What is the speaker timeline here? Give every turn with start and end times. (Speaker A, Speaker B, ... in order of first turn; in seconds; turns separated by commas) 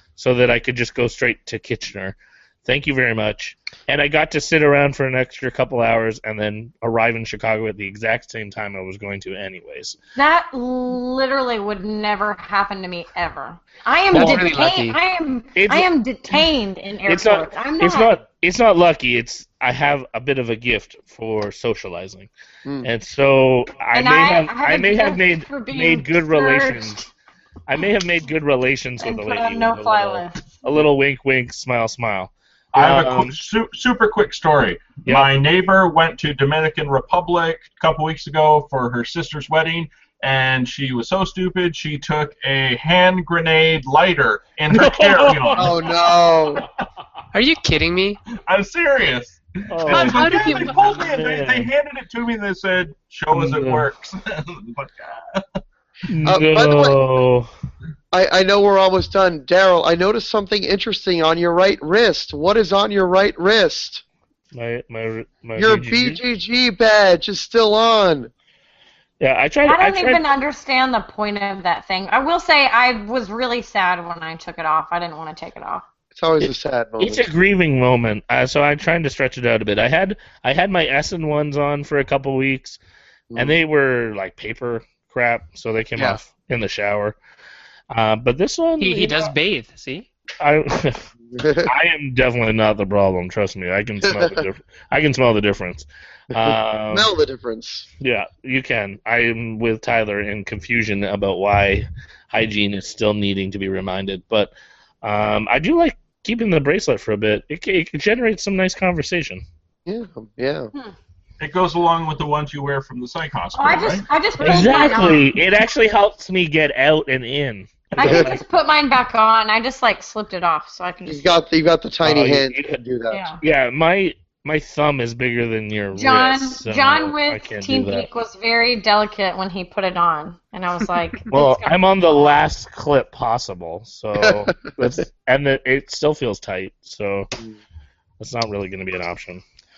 Speaker A: 0.2-10.0, Speaker B: 10.2-18.1, Speaker C: 14.1-15.0, Speaker A: 14.1-14.4, Speaker A: 15.6-15.9, Speaker A: 17.1-22.3, Speaker D: 22.6-22.9, Speaker A: 22.8-27.1, Speaker B: 23.9-27.1, Speaker A: 27.7-33.5, Speaker B: 29.0-30.6, Speaker E: 32.7-45.9, Speaker A: 35.0-35.3, Speaker A: 44.7-45.7, Speaker D: 45.6-46.7, Speaker C: 47.3-48.2, Speaker E: 48.5-55.6, Speaker A: 49.7-51.7, Speaker C: 49.9-51.0, Speaker A: 53.3-53.9, Speaker A: 56.1-57.5, Speaker D: 56.2-57.0, Speaker D: 58.1-64.0, Speaker A: 64.5-66.2, Speaker D: 65.6-68.3, Speaker A: 69.2-70.2, Speaker B: 69.7-75.8, Speaker D: 76.1-77.3, Speaker A: 76.4-82.8, Speaker D: 83.3-83.6, Speaker A: 83.3-87.2, Speaker A: 87.9-89.3, Speaker C: 88.8-90.1, Speaker A: 90.4-91.1, Speaker D: 91.3-91.7, Speaker A: 91.6-97.1, Speaker D: 94.0-94.4, Speaker D: 96.3-97.9, Speaker A: 98.0-109.4, Speaker D: 109.9-110.7, Speaker E: 111.4-114.1, Speaker B: 113.5-115.3, Speaker A: 114.4-118.4, Speaker B: 118.0-121.4, Speaker D: 118.0-118.4, Speaker D: 121.0-123.3, Speaker A: 122.0-122.8, Speaker B: 123.1-123.4, Speaker A: 123.4-128.1, Speaker B: 125.9-131.8, Speaker A: 131.3-137.3, Speaker D: 134.2-134.5, Speaker A: 138.2-139.4